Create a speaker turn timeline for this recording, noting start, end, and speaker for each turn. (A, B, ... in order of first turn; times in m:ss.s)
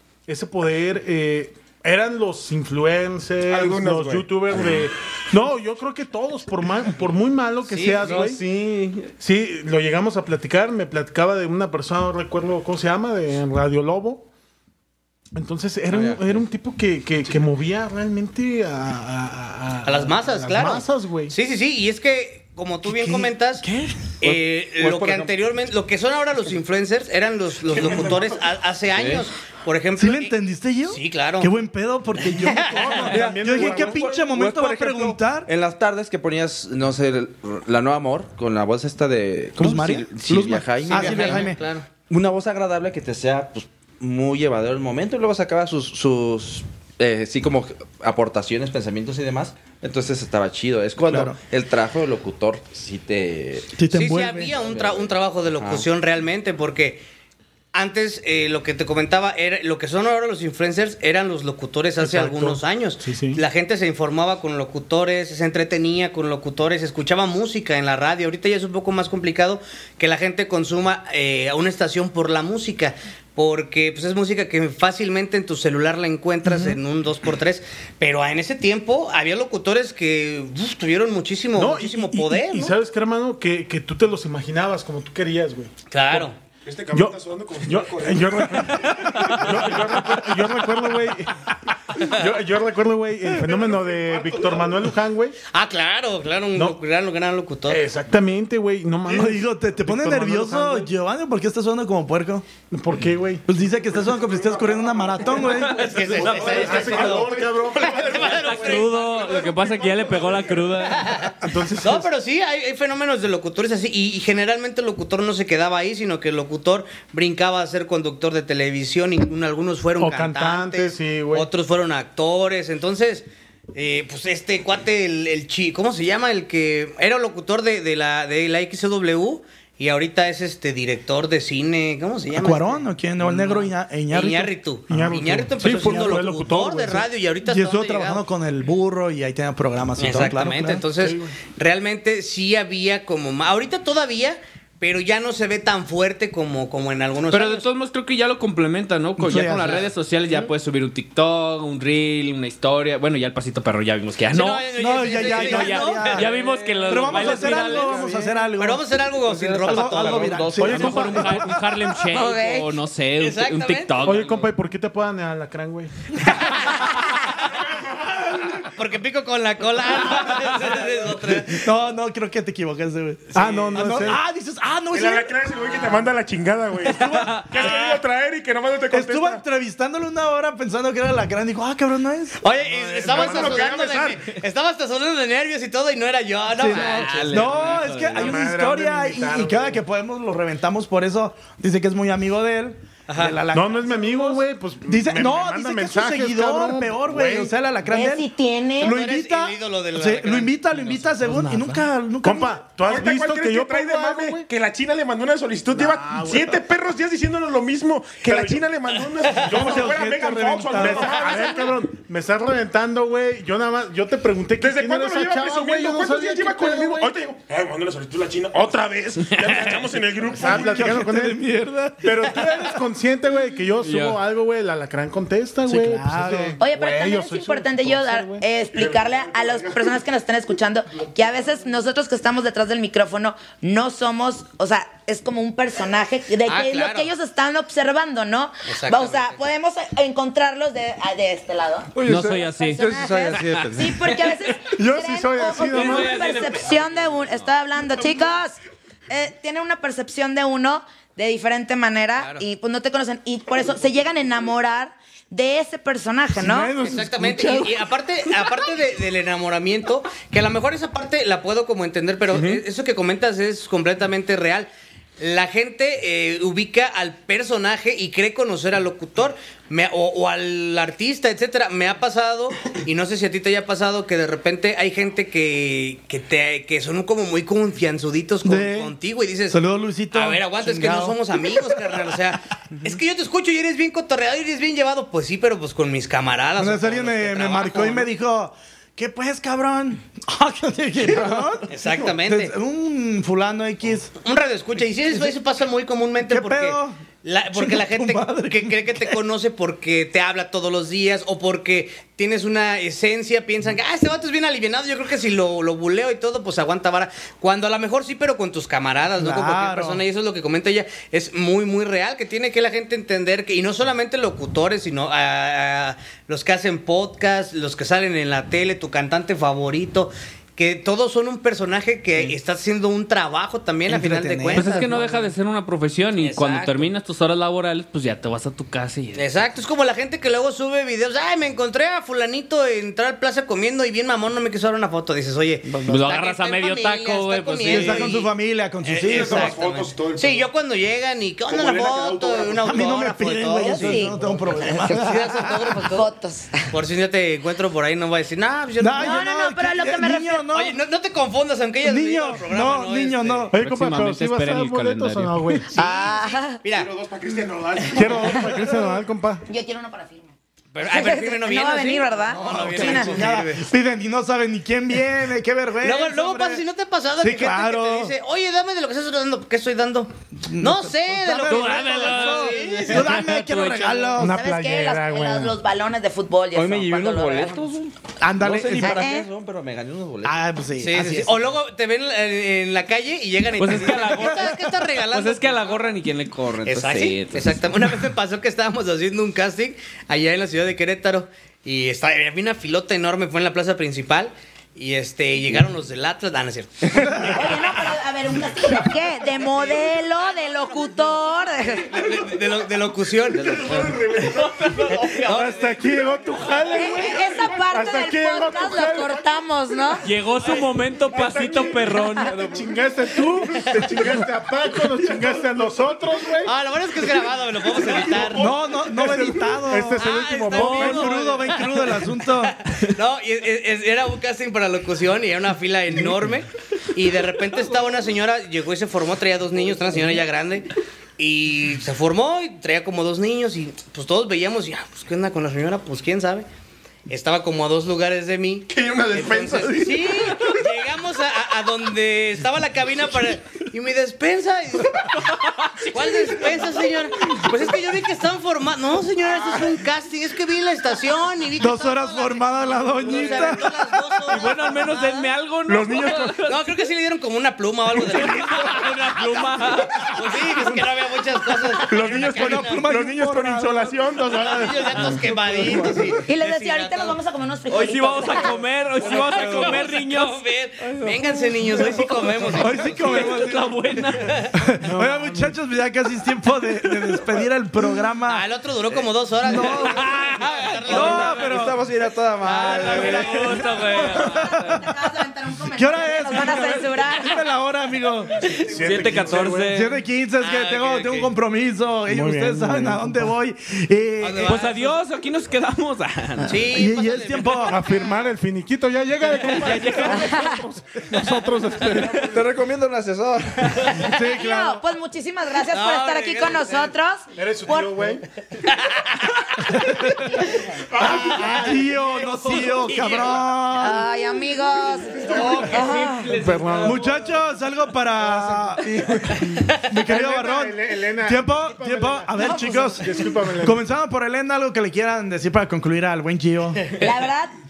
0:00.3-0:14.3 A
0:03.5-0:04.6 B
0:07.6-0:08.3 C
0:08.1-0:09.1 D
0:08.1-0:08.4 E
0:15.3-0:21.4 A
0:15.9-0:16.4 E
0:19.8-0:23.6 C
0:22.8-0:24.1 F
0:24.2-0:30.4 C
0:24.2-0:25.4 E
0:27.7-0:28.4 B
0:28.9-0:29.2 E
0:30.0-0:35.5 F
0:30.9-0:31.5 C
0:32.3-0:33.0 C
0:32.6-0:34.2 A
0:33.1-0:41.5 E
0:33.4-0:33.8 B
0:39.6-0:41.6 F
0:40.9-0:41.9 C
0:42.1-0:53.7 E
0:51.0-0:51.4 F
0:53.8-0:54.5 F
0:53.9-0:57.0 C
0:54.6-0:55.9 E
0:57.7-1:22.8 C
1:02.0-1:03.4 A
1:21.6-1:26.2 A
1:25.9-1:26.4 C
1:26.6-1:30.2 B
1:26.9-1:35.4 A
1:28.9-1:29.4 D
1:33.4-1:34.8 B
1:35.5-1:37.8 C
1:37.7-1:40.9 A
1:39.1-1:42.4 F
1:42.7-1:43.4 A
1:43.5-1:45.9 F
1:43.9-1:50.9 B
1:45.5-1:46.9 D
1:45.7-1:49.4 C
1:46.2-1:48.8 A
1:48.3-1:51.1 D
1:50.8-2:18.2 C
1:51.4-1:52.1 A
2:00.0-2:01.5 A
2:12.4-2:15.0 F
2:14.9-2:17.1 A
2:17.4-2:20.8 F
2:20.0-2:27.6 C
2:21.0-2:21.3 A
2:27.3-2:38.1 D
2:29.2-2:29.9 F
2:34.3-2:36.5 C
2:34.8-2:36.3 F
2:36.3-2:37.7 E
2:36.8-2:38.9 F
2:37.7-2:38.5 A
2:38.6-2:40.4 C
2:39.2-2:41.3 E
2:39.6-2:41.6 F
2:40.6-2:41.5 A
2:40.6-2:44.5 D
2:42.0-2:42.7 G
2:43.2-2:44.2 C
2:44.0-2:45.9 A
2:46.2-2:46.9 C
2:47.7-2:48.6 B
2:48.7-2:51.7 C
2:51.4-2:56.1 F
2:53.3-2:54.2 A
2:53.4-2:53.7 C
2:54.9-2:59.4 B
2:56.9-2:57.4 F
2:57.0-2:57.7 D
2:57.6-2:58.0 C
2:58.9-3:02.4 F
3:02.4-3:07.8 C
3:02.6-3:04.1 A
3:03.0-3:04.2 B
3:06.5-3:18.3 F
3:06.7-3:08.4 D
3:08.1-3:09.8 A
3:13.1-3:13.4 C
3:13.5-3:17.5 A
3:17.8-3:19.0 G
3:18.8-3:22.6 F
3:18.8-3:21.8 C
3:22.2-3:24.5 A
3:22.9-3:31.7 B
3:25.7-3:26.6 A
3:28.2-3:28.6 A
3:29.4-3:29.7 C
3:29.4-3:31.2 F
3:30.7-3:37.2 A
3:34.6-3:41.0 B
3:39.4-3:39.8 D
3:40.3-3:41.4 A
3:40.4-3:42.8 F
3:42.0-3:48.4 A
3:43.8-3:44.2 D
3:45.7-3:46.6 F
3:46.6-4:02.0 G
3:48.7-3:50.0 B
3:51.0-3:51.4 B
3:56.4-3:57.1 C
3:58.7-3:59.4 C
4:01.9-4:03.9 E
4:02.0-4:02.9 D
4:02.6-4:08.6 G
4:03.6-4:04.7 D
4:04.8-4:06.2 A
4:05.5-4:07.5 D
4:09.1-4:16.8 G
4:12.2-4:12.4 C
4:16.4-4:17.8 A
4:16.7-4:39.6 C
4:38.4-4:38.9 F
4:39.5-4:41.7 F
4:40.1-4:48.1 C
4:46.6-4:54.1 F
4:51.7-4:52.5 C
4:54.2-5:25.1 C
4:56.3-4:57.0 F
4:57.5-4:59.2 F
5:09.2-5:10.0 F
5:23.9-5:25.2 F
5:24.5-5:29.3 D
5:26.2-5:26.9 C
5:29.2-5:38.3 C
5:35.6-5:36.0 F
5:35.8-5:38.1 D
5:37.6-5:39.5 F
5:38.8-5:44.1 C
5:39.1-5:40.5 B
5:41.5-5:43.0 B
5:42.6-5:45.6 F
5:43.6-5:46.7 G
5:44.6-5:46.1 C
5:46.7-5:49.3 C
5:48.8-5:50.8 F
5:49.0-5:50.5 G
5:50.5-5:53.5 C
5:51.8-5:53.5 F
5:53.5-5:55.7 A
5:53.6-5:55.6 D
5:55.7-5:56.6 G
5:55.7-5:56.9 C
5:56.7-5:58.4 B
5:57.9-5:59.4 A
5:58.3-5:58.8 G
5:59.5-6:00.3 G
6:00.7-6:03.7 C
6:00.8-6:03.3 G
6:02.3-6:06.6 F
6:05.8-6:13.2 C
6:07.2-6:08.1 F
6:10.4-6:14.4 F
6:11.4-6:14.2 D
6:14.2-6:15.6 A
6:14.2-6:17.6 G
6:16.5-6:20.5 E
6:18.2-6:19.1 F
6:18.8-6:19.3 G
6:20.2-6:21.5 F
6:20.8-6:25.9 C
6:23.6-6:27.6 D
6:26.7-6:37.7 C
6:37.1-6:41.9 G
6:39.3-6:41.1 C
6:41.6-6:43.8 C
6:41.9-6:42.3 B
6:43.3-6:47.6 B
6:43.4-6:44.0 E
6:44.4-6:45.1 D
6:44.9-6:45.6 C
6:45.2-6:49.4 A
6:46.7-6:50.1 G
6:50.0-6:52.6 D
6:50.3-6:55.4 B
6:52.3-6:56.5 A
6:56.4-6:58.5 C
6:57.7-6:59.2 B
6:57.8-7:01.2 A
6:58.4-7:02.6 F
7:00.0-7:16.5 C
7:00.7-7:01.1 D
7:17.1-7:25.2 C
7:18.7-7:20.6 B
7:25.2-7:25.9 D
7:25.8-7:35.3 C
7:31.6-7:33.9 F
7:33.1-7:33.5 A
7:34.3-7:36.8 D
7:35.6-7:36.4 B
7:36.5-7:42.9 C
7:37.9-7:40.2 D
7:40.5-7:40.8 F
7:41.9-7:45.2 B
7:42.0-7:44.1 F
7:44.3-7:47.2 C
7:45.1-7:46.1 F
7:46.2-7:49.7 G
7:47.7-7:50.4 D
7:48.2-7:53.4 C
7:52.4-7:53.7 F
7:52.4-7:54.5 D
7:54.1-7:54.5 C
7:54.6-7:58.4 F
7:54.8-7:55.6 A
7:58.2-8:01.7 C
7:59.4-8:00.1 F
7:59.7-8:01.4 D
8:00.9-8:01.8 F
8:00.9-8:03.3 E
8:02.4-8:03.7 C
8:02.9-8:05.0 D
8:03.0-8:04.8 F
8:03.8-8:07.5 G
8:05.7-8:08.6 F
8:08.6-8:09.8 A
8:08.8-8:11.3 D
8:09.7-8:14.6 F
8:10.5-8:11.3 C
8:12.1-8:13.4 A
8:14.2-8:15.0 C
8:14.4-8:16.5 D
8:16.5-8:18.0 C
8:16.7-8:17.8 F
8:17.6-8:22.4 A
8:19.4-8:20.5 D
8:20.2-8:20.6 G
8:21.9-8:22.2 D
8:22.3-8:23.8 E
8:23.6-8:24.1 C
8:23.9-8:24.8 F
8:24.1-8:28.1 G
8:25.5-8:26.9 C
8:27.4-8:28.2 A
8:28.6-8:29.9 C
8:30.9-8:31.9 B
8:30.9-8:32.0 A
8:31.1-8:34.0 F
8:32.0-8:32.7 D
8:32.5-8:33.5 C
8:33.7-8:36.4 G
8:34.6-8:35.9 B
8:35.3-8:37.4 D
8:35.3-8:35.7 C
8:36.3-8:37.0 A
8:36.8-8:46.8 F
8:38.2-8:43.8 A
8:42.3-8:43.3 G
8:47.0-8:47.5 G